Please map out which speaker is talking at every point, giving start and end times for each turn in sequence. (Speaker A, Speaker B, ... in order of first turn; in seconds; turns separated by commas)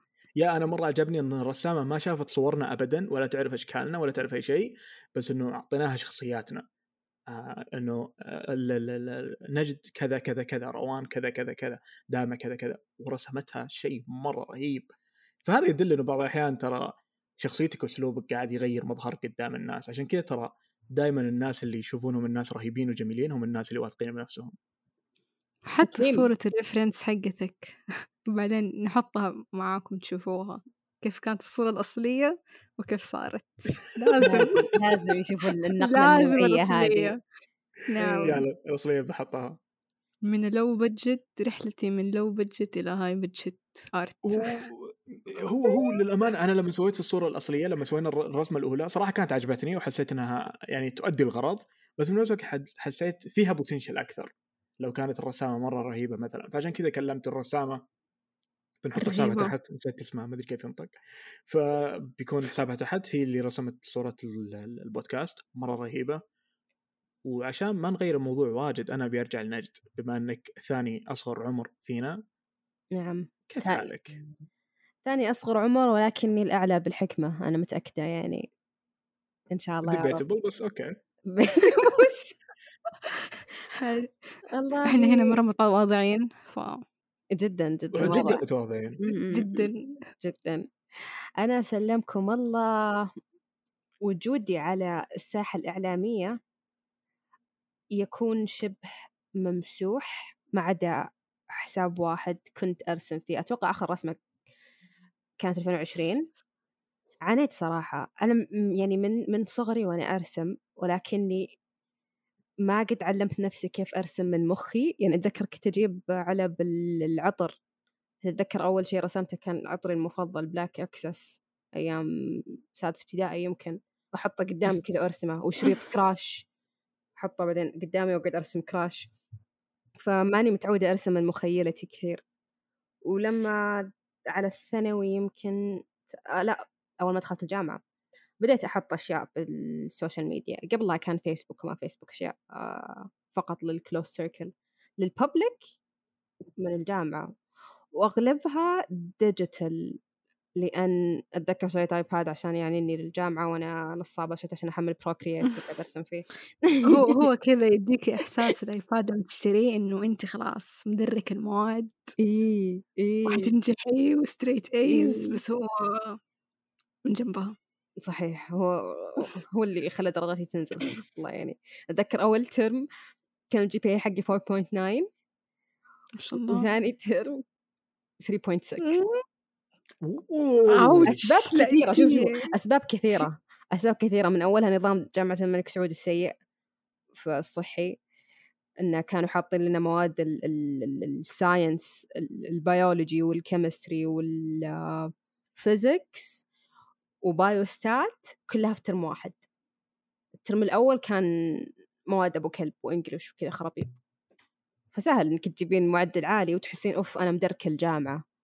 Speaker A: 0.4-6.7, Speaker A: 7.3-14.9, Speaker A: 15.4-24.5, Speaker B: 25.7-34.8, Speaker C: 25.8-26.3, Speaker C: 34.2-37.1, Speaker B: 35.8-37.2, Speaker B: 37.9-38.4, Speaker C: 38.0-38.4, Speaker A: 38.2-39.6, Speaker B: 40.3-44.6, Speaker A: 44.2-57.8, Speaker A: 58.8-66.2, Speaker B: 59.0-59.5, Speaker A: 67.2-72.2, Speaker C: 72.9-73.9, Speaker A: 73.5-74.2, Speaker C: 75.0-78.5, Speaker C: 79.5-80.2, Speaker A: 79.8-81.0, Speaker C: 81.3-82.3, Speaker B: 81.6-82.1, Speaker B: 83.1-84.1, Speaker C: 84.5-85.4, Speaker B: 84.8-86.8, Speaker C: 87.3-88.4, Speaker A: 87.9-89.0, Speaker C: 89.0-89.7, Speaker B: 89.3-89.8, Speaker C: 90.2-90.7, Speaker C: 91.4-93.1, Speaker C: 94.0-96.4, Speaker C: 98.0-98.8, Speaker C: 99.4-104.2, Speaker C: 105.4-106.3, Speaker C: 107.2-111.6, Speaker C: 112.7-117.6, Speaker C: 118.2-126.5, Speaker C: 127.2-129.1, Speaker C: 130.0-132.2, Speaker C: 133.1-137.8, Speaker C: 138.4-145.6, Speaker C: 146.6-147.3, Speaker C: 148.0-150.0, Speaker C: 150.6-157.3, Speaker B: 156.8-162.1, Speaker C: 162.2-163.5, Speaker B: 163.3-166.2, Speaker C: 164.9-165.4, Speaker B: 167.1-167.6, Speaker C: 168.0-172.9, Speaker C: 173.5-175.1, Speaker B: 176.2-176.7, Speaker C: 176.5-177.4, Speaker C: 178.2-179.0, Speaker B: 178.8-179.2, Speaker A: 180.0-181.3, Speaker B: 180.7-182.5, Speaker C: 181.0-186.3, Speaker C: 187.1-188.0, Speaker C: 188.8-196.4, Speaker C: 197.2-199.4, Speaker C: 200.4-203.9, Speaker C: 204.9-208.2